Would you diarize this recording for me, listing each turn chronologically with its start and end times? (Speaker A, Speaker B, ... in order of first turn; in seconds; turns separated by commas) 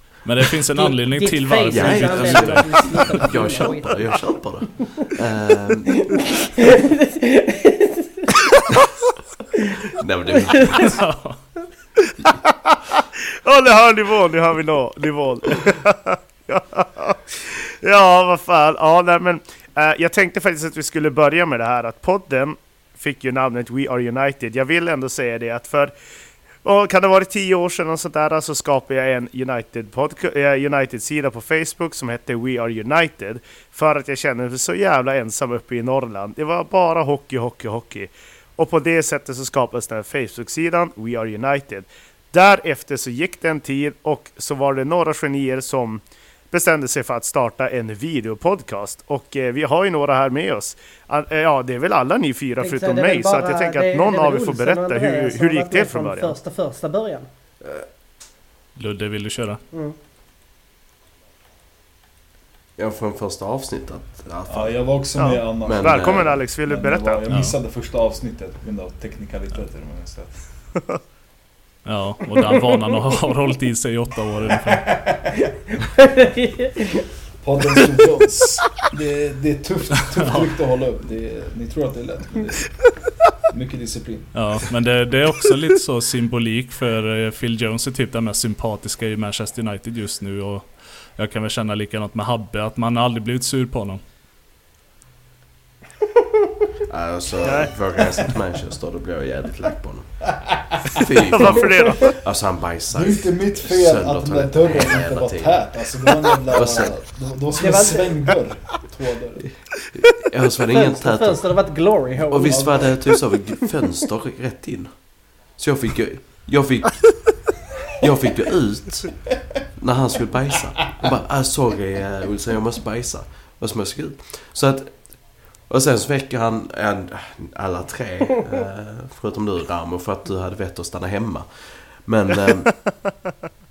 Speaker A: 0.2-3.3, Speaker B: 0.8-4.6, Speaker C: 1.7-5.9, Speaker B: 7.0-8.1, Speaker C: 10.0-11.0, Speaker A: 10.9-11.4, Speaker D: 13.4-25.9, Speaker D: 26.6-56.4, Speaker B: 52.6-57.3, Speaker A: 58.8-59.6, Speaker C: 62.8-65.0, Speaker E: 64.5-70.6, Speaker D: 65.2-67.4, Speaker C: 65.6-66.4, Speaker A: 67.3-67.6, Speaker A: 71.8-74.9, Speaker E: 74.9-75.3, Speaker B: 76.0-77.1, Speaker E: 77.4-82.9, Speaker E: 83.5-84.4, Speaker A: 84.3-94.0, Speaker C: 96.9-100.2, Speaker D: 97.4-97.8, Speaker C: 101.0-107.2, Speaker D: 101.3-102.2, Speaker E: 102.9-109.6, Speaker B: 107.6-108.1, Speaker C: 109.9-117.3, Speaker B: 110.8-113.1, Speaker E: 112.4-113.0, Speaker C: 118.0-119.2, Speaker C: 119.8-132.9